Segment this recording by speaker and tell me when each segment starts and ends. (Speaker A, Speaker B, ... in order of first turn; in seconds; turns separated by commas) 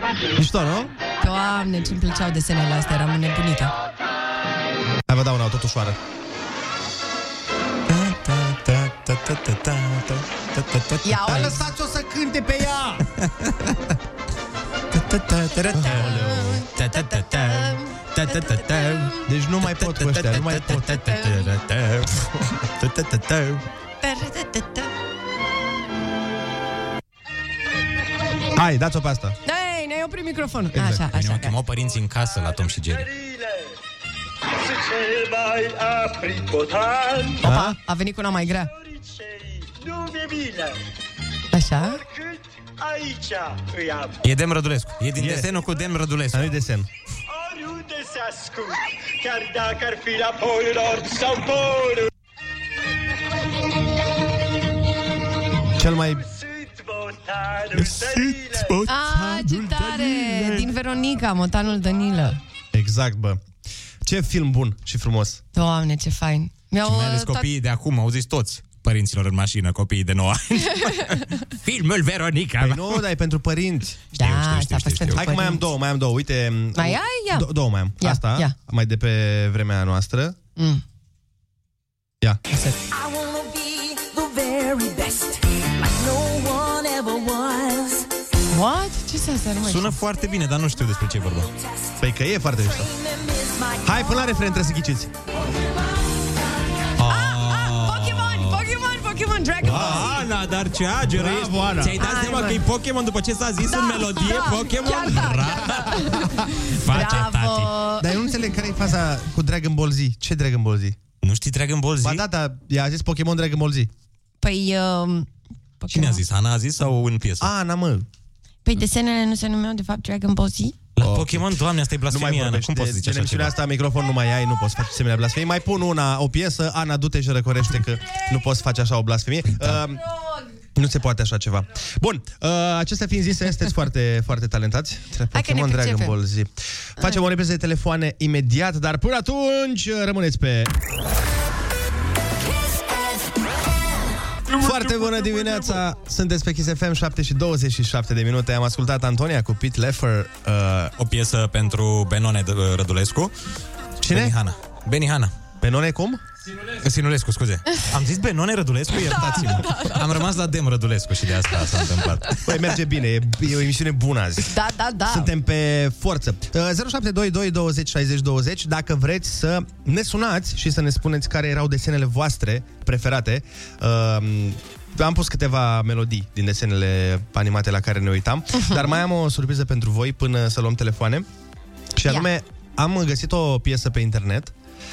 Speaker A: 0.4-0.9, Speaker B: 1.2-3.7, Speaker A: 5.1-6.0, Speaker C: 7.9-11.5, Speaker B: 11.0-11.6, Speaker A: 11.3-13.0, Speaker C: 13.2-13.8, Speaker C: 14.9-23.6, Speaker A: 15.7-16.7, Speaker B: 15.8-19.3, Speaker A: 19.3-21.0, Speaker B: 20.9-21.4, Speaker B: 24.0-24.9, Speaker A: 28.5-29.3, Speaker B: 29.4-31.6, Speaker A: 30.7-31.0, Speaker C: 31.0-33.1, Speaker D: 31.9-33.7, Speaker D: 34.5-37.4, Speaker A: 37.4-37.8, Speaker B: 37.4-38.7, Speaker D: 38.5-40.8, Speaker B: 41.5-42.0, Speaker D: 41.8-44.2, Speaker C: 44.2-46.5, Speaker A: 45.2-45.5, Speaker A: 46.3-46.9, Speaker D: 47.3-52.1, Speaker A: 55.8-56.2, Speaker D: 56.0-58.7, Speaker C: 57.8-60.7, Speaker B: 58.9-62.4, Speaker A: 62.7-63.4, Speaker A: 64.0-65.4, Speaker B: 65.5-67.4, Speaker C: 66.8-73.0, Speaker A: 72.6-74.0, Speaker B: 74.1-75.6, Speaker C: 74.2-75.2, Speaker A: 75.1-80.4, Speaker B: 76.7-78.5, Speaker B: 80.6-80.8, Speaker B: 82.5-82.8, Speaker E: 82.9-88.1, Speaker B: 88.5-90.0, Speaker C: 89.6-91.5, Speaker A: 92.0-92.9, Speaker E: 92.8-93.9, Speaker A: 93.8-95.1, Speaker C: 97.0-98.7, Speaker B: 97.0-100.2, Speaker C: 99.6-107.7, Speaker A: 99.6-100.2, Speaker A: 101.1-102.0, Speaker B: 102.0-102.6, Speaker B: 103.6-108.3, Speaker A: 108.0-111.0, Speaker C: 111.2-112.2, Speaker A: 112.0-113.9, Speaker B: 114.4-115.3, Speaker B: 115.8-116.2, Speaker C: 115.9-117.5, Speaker A: 117.4-118.1, Speaker B: 118.7-120.8, Speaker C: 121.0-123.5, Speaker A: 121.0-121.5, Speaker A: 122.1-130.0, Speaker B: 130.1-130.4, Speaker A: 130.7-140.7, Speaker B: 135.3-136.2, Speaker C: 144.5-145.8, Speaker A: 144.6-150.9, Speaker C: 151.0-153.3, Speaker A: 154.0-154.4, Speaker C: 154.1-155.3, Speaker A: 155.6-156.2, Speaker C: 156.5-162.5, Speaker B: 159.1-160.1, Speaker A: 162.4-164.5, Speaker B: 164.5-165.3, Speaker A: 165.1-181.2, Speaker B: 178.5-179.0, Speaker A: 181.9-184.5